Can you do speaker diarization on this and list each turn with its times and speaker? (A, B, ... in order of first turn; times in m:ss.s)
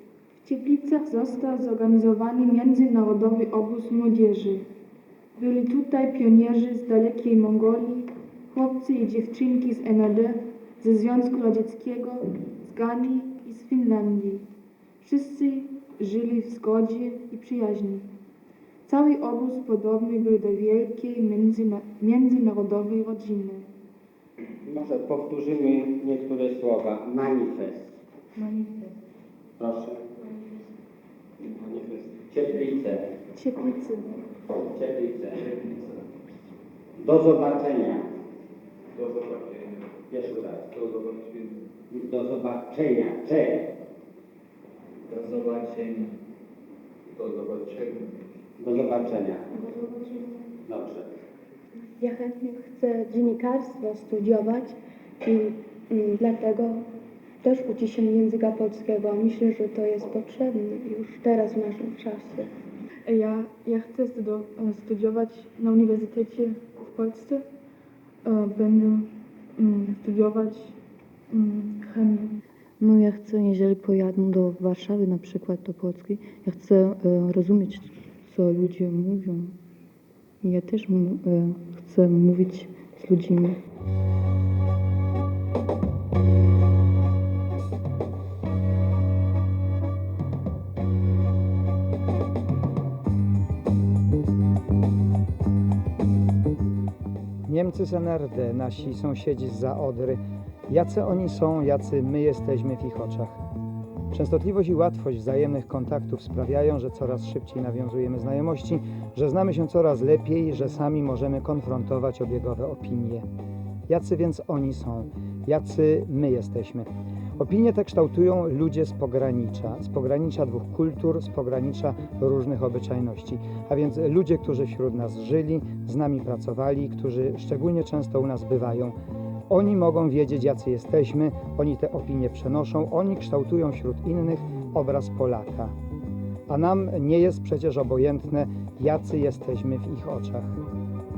0:00.4-0:04.6 A
0:05.4-0:14.5 A
0:15.0-0:18.1 A
0:18.8-0:23.7 A
0:24.6-0:28.0 B
0:28.4-0:28.9 A
0:29.6-0:30.4 B
0:31.4-0:33.1 B
0:33.3-0:34.2 A
0:34.8-0:35.4 B
0:35.0-0:36.0 C
0:37.0-0:38.1 B
0:39.0-0:39.9 C
0:40.1-0:40.7 B
0:40.7-0:41.6 C
0:41.9-0:43.7 B
0:45.1-0:46.2 C
0:47.1-0:48.3 C
0:48.6-0:49.5 B
0:49.6-0:50.4 A
0:50.7-0:51.1 B
0:52.0-0:56.8 D
0:57.4-1:02.5 D
1:03.0-1:07.4 A
1:08.2-1:10.8 A
1:11.3-1:12.4 A
1:12.8-1:19.5 E
1:20.4-1:23.6 E
1:37.5-1:43.4 F
1:44.1-1:53.3 F
1:53.9-2:09.0 F
2:09.5-2:15.8 F
2:16.5-2:20.6 F